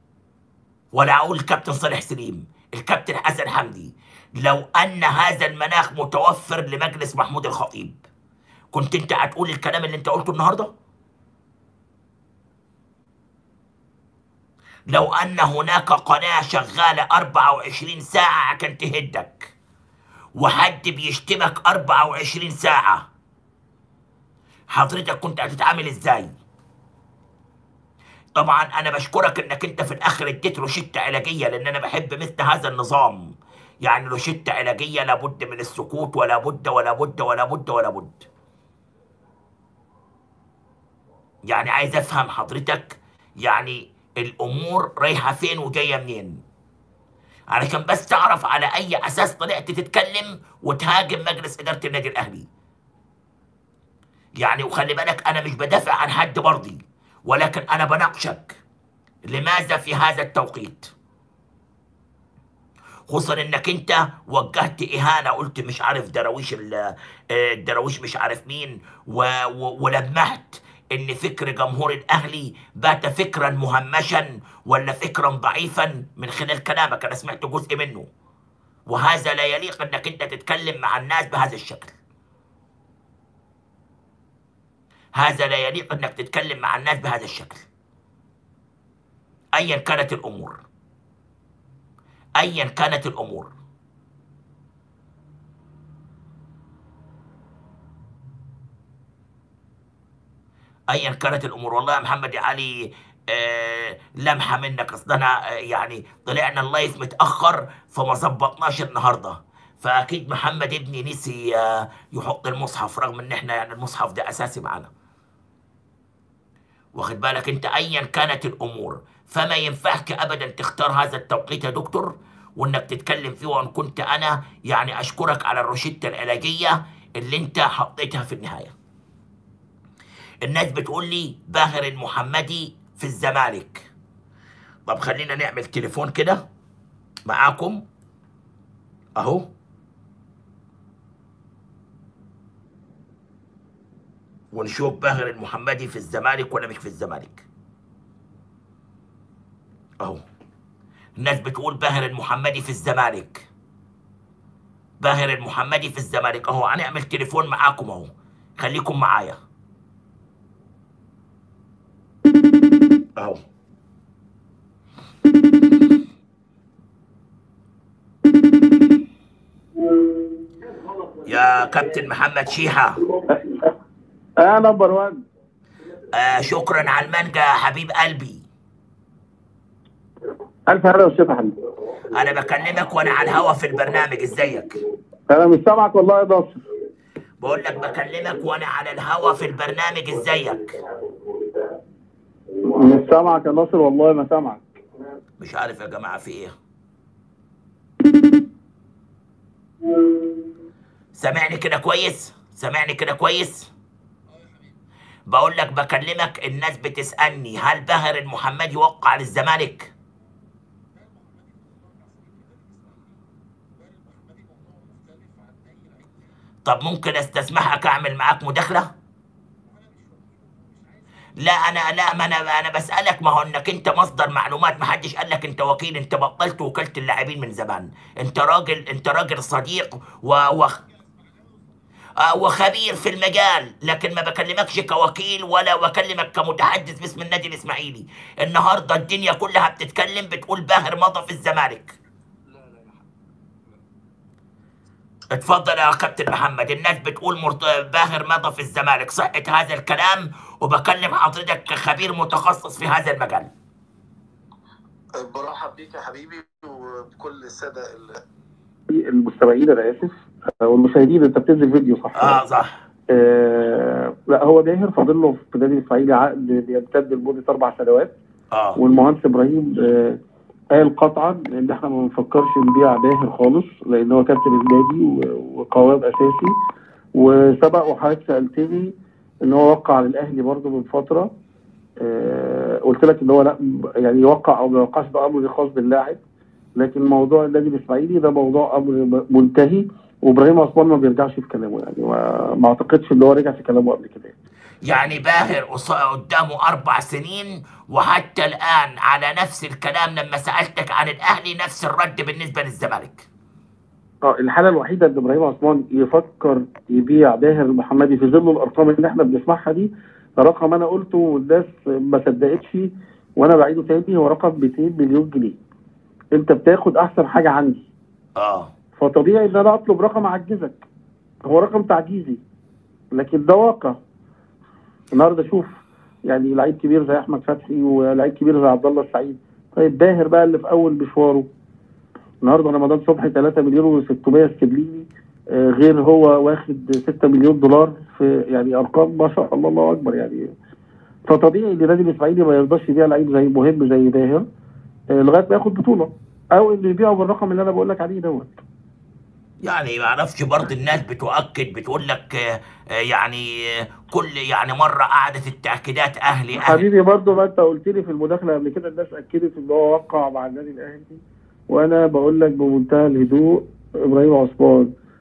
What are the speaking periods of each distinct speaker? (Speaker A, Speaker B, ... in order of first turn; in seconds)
Speaker A: 0.9-8.0, 8.7-10.7, 14.9-19.5, 20.4-23.1, 24.7-26.3, 28.4-38.3, 41.5-46.4, 47.5-52.5, 54.4-58.6, 59.2-60.9, 63.1-78.1, 78.9-82.0, 85.2-87.7, 89.5-90.6, 92.4-93.5, 100.9-114.9, 117.0-128.7, 130.4-133.9, 134.9-136.4, 137.3-137.8, 139.2-139.5, 144.5-147.5, 151.2-153.5, 155.0-159.4, 171.2-173.0, 176.1-178.5, 182.1-184.8, 187.4-190.8, 195.4-196.5, 201.2-203.7, 205.3-209.9, 216.7-218.9, 221.4-230.8, 232.2-242.0, 245.3-253.5, 262.2-262.8, 268.5-268.8, 294.8-303.3, 318.4-318.7, 349.6-356.9
Speaker B: 173.2-173.6, 174.4-175.2, 180.7-181.5, 185.3-186.5, 192.7-194.6, 258.9-262.4, 263.1-268.1, 268.8-270.2, 270.8-276.5, 277.2-278.9, 279.5-281.3, 282.0-286.2, 286.8-294.4, 304.3-312.9, 313.4-315.6, 316.4-317.9, 319.0-320.8, 321.5-322.4, 323.1-324.0, 325.1-325.7, 326.3-331.5, 332.4-340.5, 341.3-344.4, 345.1-348.6, 356.5-361.2, 361.7-364.9
Speaker C: 242.6-242.8, 255.2-258.2